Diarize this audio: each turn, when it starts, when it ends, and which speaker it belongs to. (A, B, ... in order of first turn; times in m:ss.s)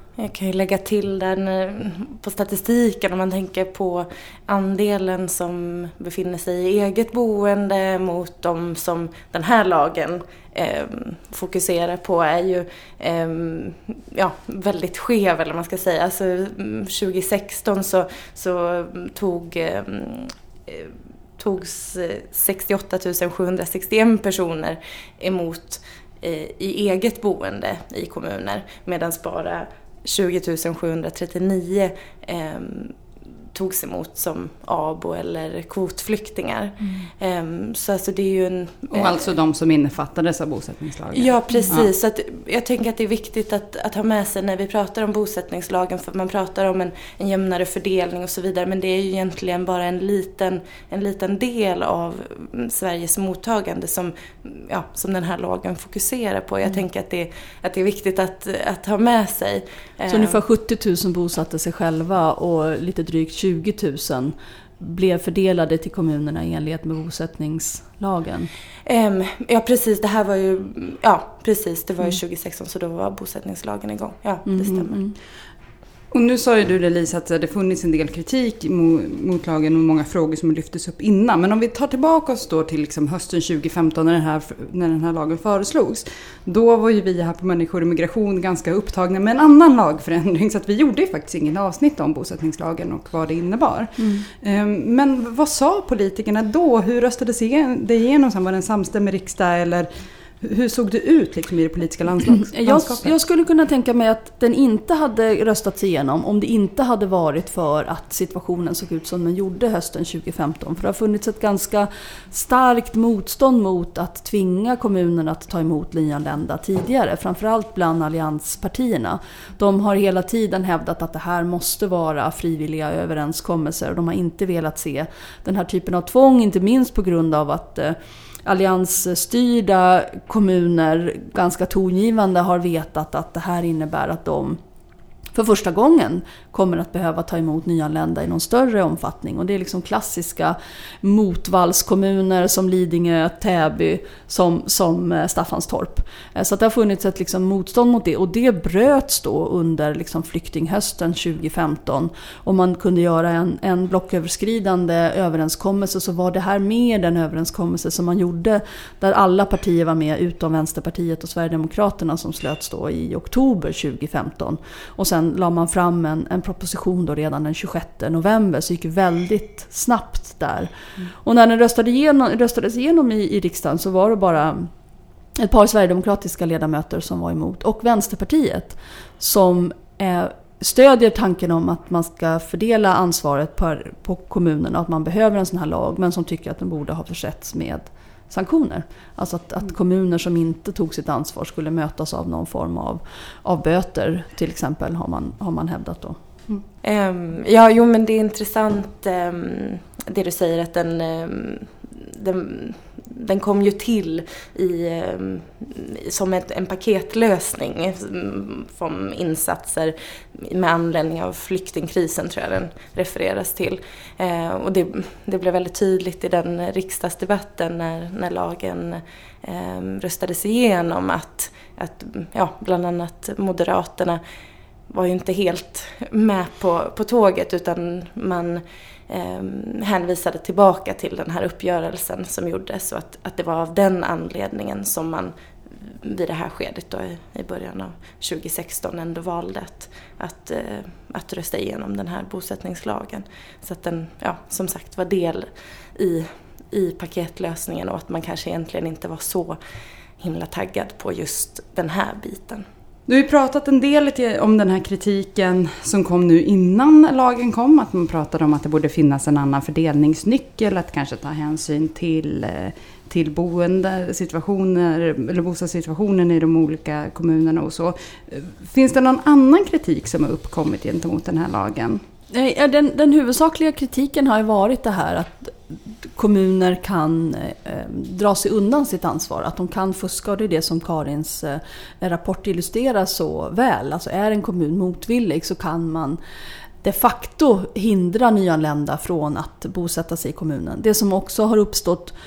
0:00.2-0:32.9 A
0:33.5-0:39.2 A
0:38.9-0:41.9 B
0:41.1-1:00.4 A
1:00.1-1:08.5 C
1:08.8-1:15.0 A
1:14.5-1:15.1 C
1:16.1-1:39.9 B
1:34.0-1:34.2 C
1:40.4-1:43.1 B
1:42.4-2:14.6 C
2:15.3-2:50.7 C
2:51.2-2:54.7 C
2:55.4-3:16.2 C
3:16.8-3:44.2 A
3:44.9-3:55.3 A
3:55.9-4:09.6 A
4:10.2-4:12.6 A
4:13.1-4:32.0 B
4:32.3-4:46.2 C
4:46.8-4:52.1 C